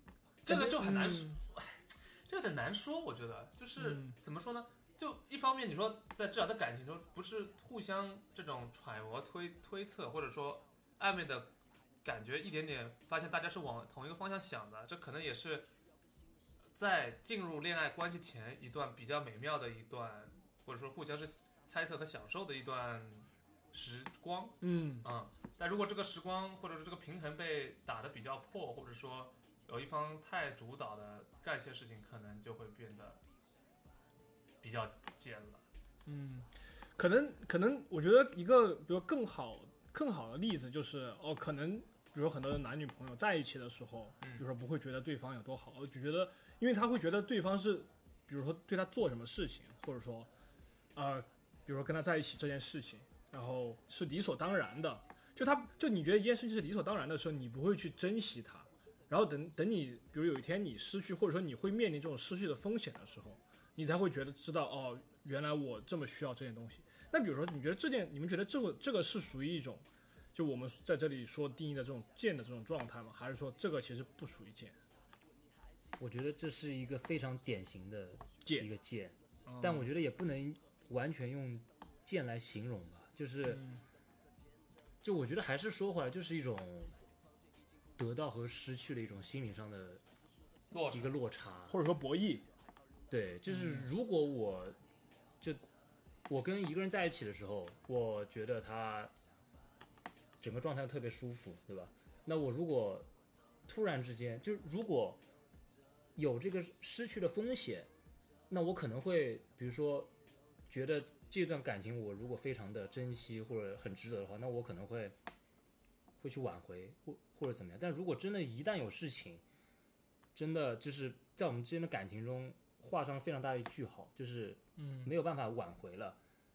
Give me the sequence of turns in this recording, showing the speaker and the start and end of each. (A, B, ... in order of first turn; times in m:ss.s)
0:00.4-0:01.4 A
0:00.5-0:11.5 B
0:03.8-0:04.2 A
0:12.0-0:15.7 B
0:16.8-0:33.2 B
0:24.6-0:25.0 A
0:34.6-0:35.6 B
0:36.0-0:50.3 A
0:51.0-1:09.8 A
1:10.4-1:14.8 A
1:16.0-1:23.6 C
1:19.5-1:19.9 A
1:23.5-1:23.8 A
1:25.0-1:26.9 C
1:28.0-1:30.0 C
1:30.7-1:31.1 B
1:30.9-1:31.8 C
1:31.7-1:32.4 A
1:33.1-1:34.8 C
1:33.5-1:33.9 A
1:36.3-1:39.1 C
1:40.4-1:43.1 C
1:43.7-1:45.2 C
1:46.2-1:47.9 C
1:48.5-1:50.1 C
1:50.7-1:55.2 C
1:56.2-1:59.4 C
2:00.4-2:06.2 C
2:04.8-2:05.1 A